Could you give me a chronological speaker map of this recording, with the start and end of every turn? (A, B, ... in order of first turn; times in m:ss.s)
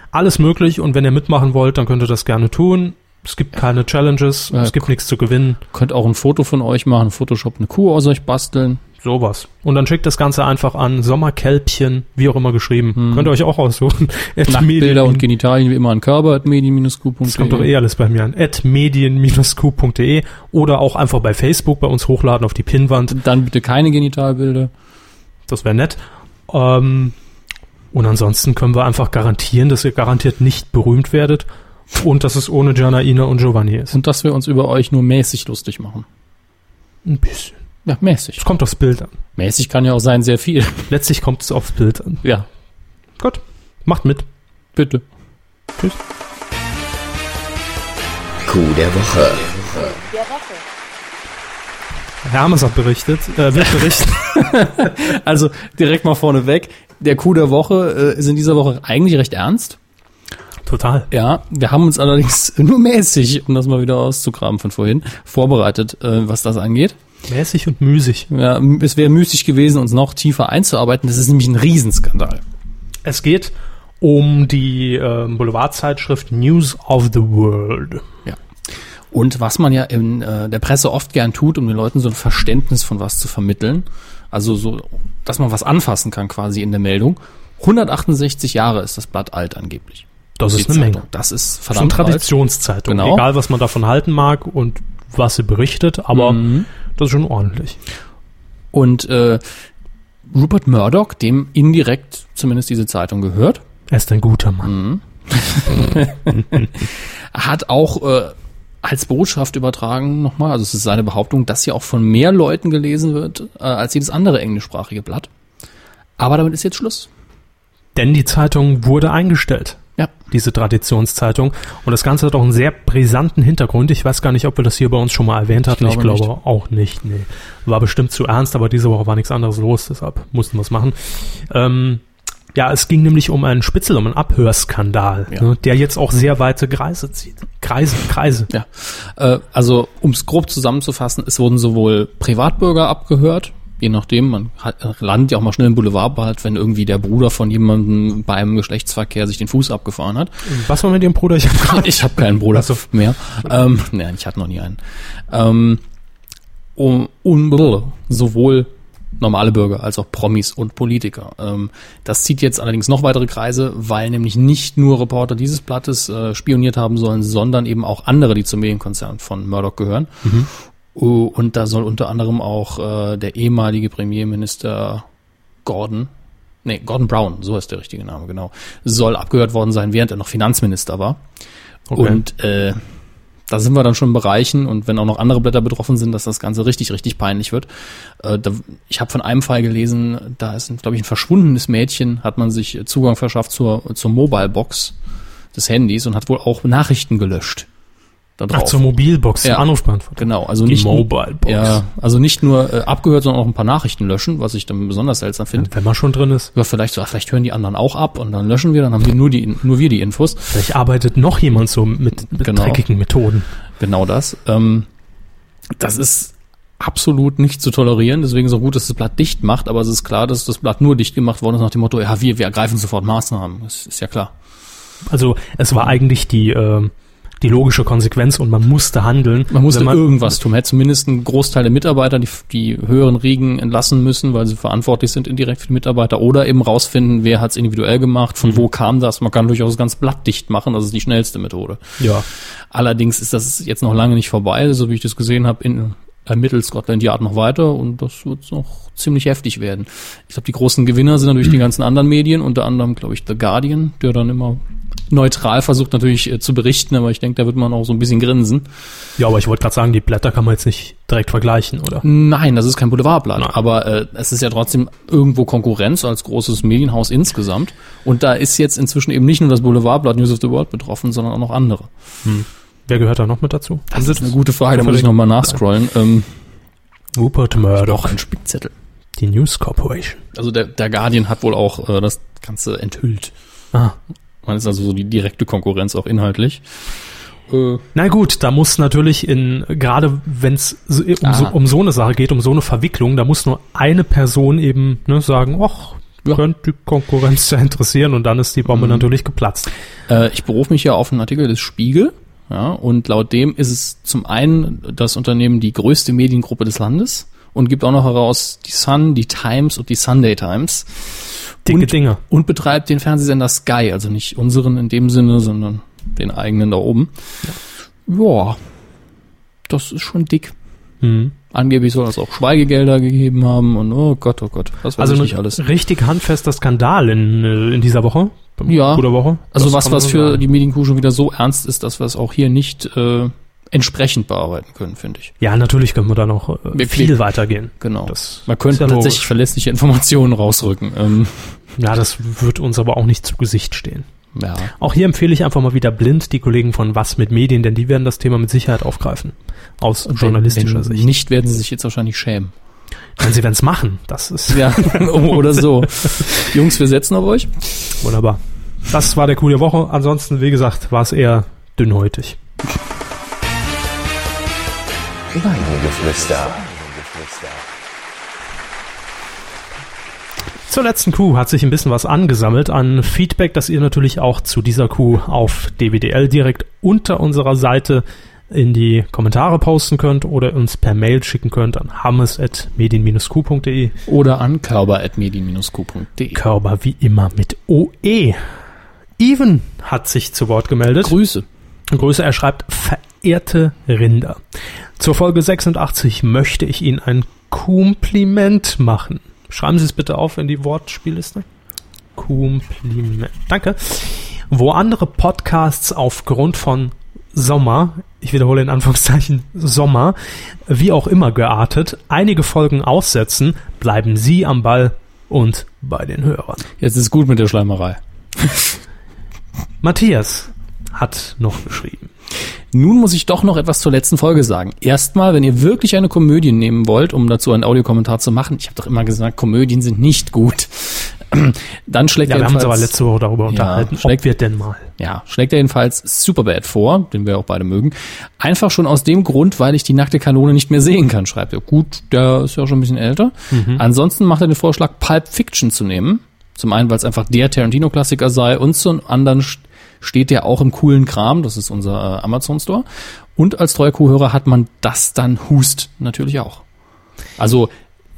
0:00.1-0:05.6 A
0:04.5-0:04.9 B
0:05.7-0:08.8 B
0:09.0-0:15.2 A
0:13.0-0:13.3 B
0:14.5-0:17.7 B
0:17.2-0:23.2 A
0:23.1-0:24.7 B
0:25.5-0:27.2 A
0:27.9-0:34.0 A
0:33.9-0:36.0 B
0:37.0-0:37.6 A
0:37.8-0:38.4 B
0:38.4-0:39.2 A
0:39.4-0:40.9 B
0:40.9-0:42.2 A
0:43.2-0:44.3 A
0:44.7-0:45.0 B
0:48.4-0:50.4 C
0:52.2-0:54.9 A
0:54.3-0:59.8 B
1:00.6-1:01.1 A
1:01.1-1:07.0 B
1:07.3-1:08.3 A
1:08.3-1:12.4 B
1:13.0-1:18.1 A
1:19.1-1:32.3 B
1:30.4-1:31.0 A
1:31.7-1:37.8 A
1:32.8-1:33.2 B
1:36.1-1:36.7 B
1:38.7-1:39.4 B
1:40.3-1:43.6 B
1:43.9-1:44.7 A
1:44.6-1:55.3 B
1:56.2-1:57.1 B
1:57.9-2:12.0 A
2:05.6-2:06.3 B
2:12.5-2:18.5 A
2:18.5-2:30.4 B
2:30.4-2:32.8 A
2:31.6-2:34.8 B
2:35.3-2:35.8 B
2:36.8-2:50.3 B
2:50.9-2:55.0 B
2:55.6-2:56.1 B
2:56.6-3:01.2 B
3:01.9-3:02.2 A
3:01.9-3:02.8 B
3:03.5-3:07.7 B
3:08.2-3:14.9 B
3:15.5-3:17.7 B
3:18.4-3:18.9 B
3:18.5-3:21.8 A
3:19.4-3:25.7 B
3:25.6-3:26.5 A
3:26.5-3:30.5 B
3:30.5-3:33.5 A
3:32.3-3:32.8 B
3:33.8-3:34.9 B
3:35.8-3:44.3 B
3:45.0-3:50.0 A
3:49.5-4:02.0 B
4:02.0-4:02.2 A
4:02.7-4:18.7 B
4:19.2-4:22.0 A
4:22.0-4:31.9 B
4:32.2-4:35.6 A
4:33.9-4:36.3 B
4:37.1-4:38.2 A
4:37.7-4:38.7 B
4:39.2-4:40.2 A
4:40.3-4:43.3 B
4:44.4-4:46.6 B
4:47.5-4:47.8 B
4:47.9-4:59.7 A
4:51.2-4:51.5 B
4:58.7-4:59.1 B
5:00.1-5:17.1 B
5:11.6-5:12.2 A
5:18.1-5:18.6 B
5:19.7-5:20.5 B
5:21.0-5:21.3 A
5:21.5-5:25.6 B
5:25.0-5:30.4 A
5:28.6-5:35.3 B
5:35.4-5:39.3 A
5:36.7-5:37.2 B
5:37.8-5:41.6 B
5:41.8-5:44.1 A
5:44.3-5:44.7 B
5:44.7-5:51.1 A
5:50.0-5:52.5 B
5:53.2-5:55.7 A
5:54.5-5:57.5 B
5:58.0-6:02.4 A
6:05.3-6:07.7 C
6:10.7-6:23.9 A
6:24.0-6:26.4 B
6:26.3-6:28.4 A
6:29.2-6:31.1 A
6:31.0-6:31.4 B
6:31.9-6:34.4 A
6:35.0-6:41.4 A
6:42.2-6:56.6 A
6:56.8-6:58.8 B
6:59.8-7:02.1 A
7:02.7-7:12.9 B
7:12.2-7:14.9 A
7:13.5-7:14.2 B
7:15.0-7:36.6 B
7:23.5-7:23.8 A
7:37.4-7:37.7 B